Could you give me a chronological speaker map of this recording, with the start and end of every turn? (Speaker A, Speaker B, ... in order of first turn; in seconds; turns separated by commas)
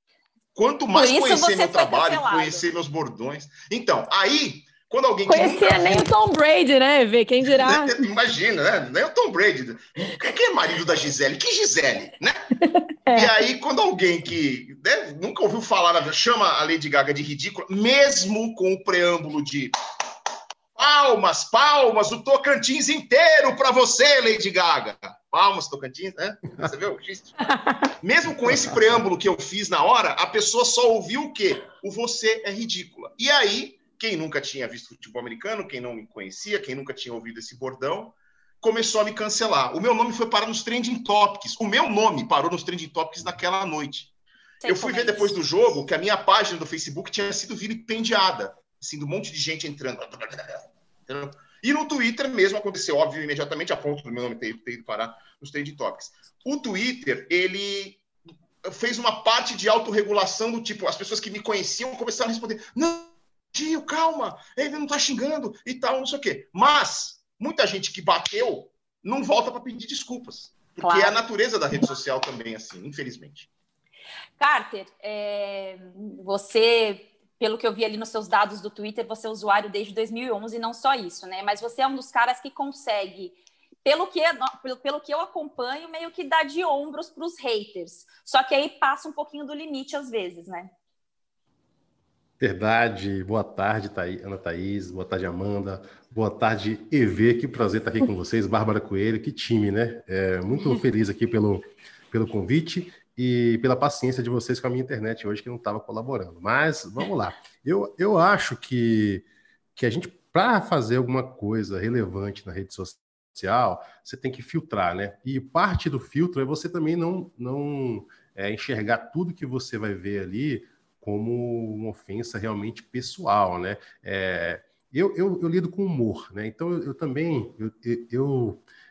Speaker A: 0.5-6.1, Speaker B: 0.9-2.6, Speaker C: 5.2-8.0, Speaker A: 7.6-12.4, Speaker C: 12.7-13.3, Speaker A: 13.1-19.7, Speaker A: 20.7-44.1, Speaker B: 44.6-45.4, Speaker A: 44.6-58.0, Speaker A: 58.6-73.5, Speaker B: 70.8-71.2, Speaker B: 74.4-90.7, Speaker D: 92.4-109.2, Speaker D: 109.8-128.6